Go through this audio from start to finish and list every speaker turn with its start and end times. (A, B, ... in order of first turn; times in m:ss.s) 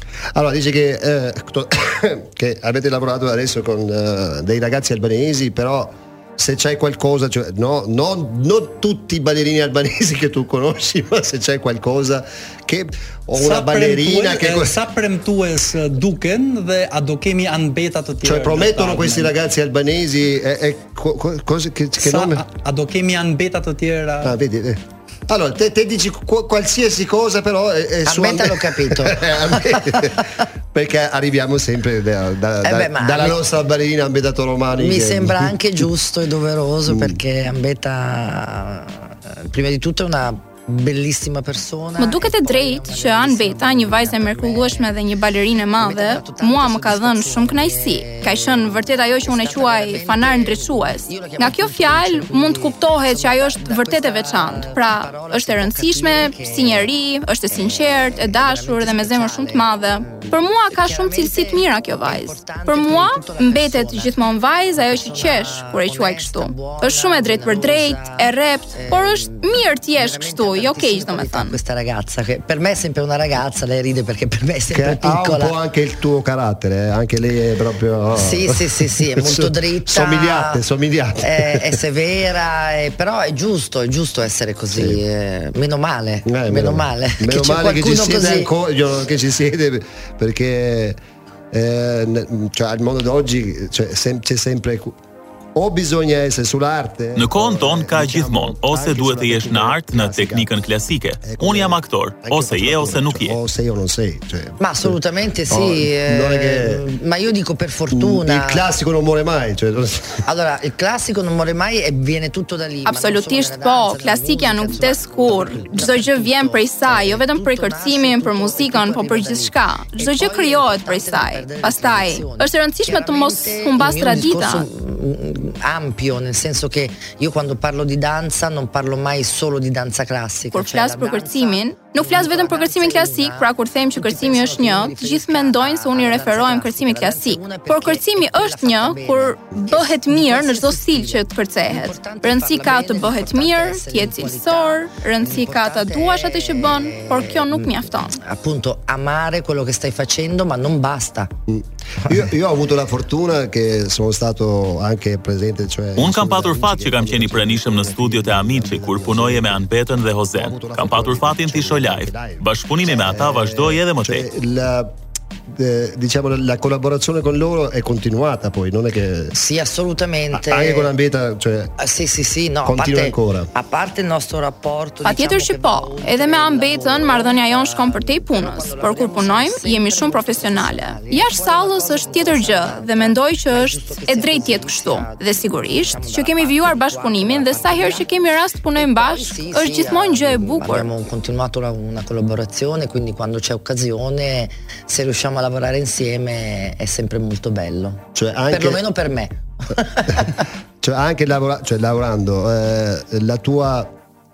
0:00.3-0:14.8 A
0:13.3-0:19.3 B
0:18.2-0:22.4 A
0:22.0-0:24.3 B
0:24.2-0:35.5 A
0:28.0-0:30.2 C
0:32.6-0:33.4 C
0:34.7-0:44.9 C
0:36.9-0:37.2 A
0:42.0-1:11.6 D
0:45.8-0:56.9 C
0:57.5-1:04.2 C
1:04.8-1:15.5 C
1:14.7-1:21.8 A
1:18.1-1:20.6 C
1:21.2-1:28.5 C
1:24.7-1:25.0 A
1:26.3-1:31.0 A
1:31.5-1:35.0 A
1:35.5-1:40.5 A
1:37.2-1:43.4 E
1:41.2-1:46.9 A
1:44.6-1:48.6 C
1:47.9-1:50.2 A
1:50.2-2:31.3 C
1:52.8-2:04.6 D
2:10.5-2:28.2 D
2:31.5-2:39.7 A
2:36.0-2:44.2 E
2:40.3-2:44.9 A
2:45.5-2:49.4 A
2:49.3-2:50.9 C
2:50.3-2:51.7 A
2:51.8-3:08.1 C
2:52.6-2:53.5 A
2:55.0-3:10.9 D
3:08.7-3:20.4 C
3:18.1-3:18.8 A
3:20.8-3:23.9 A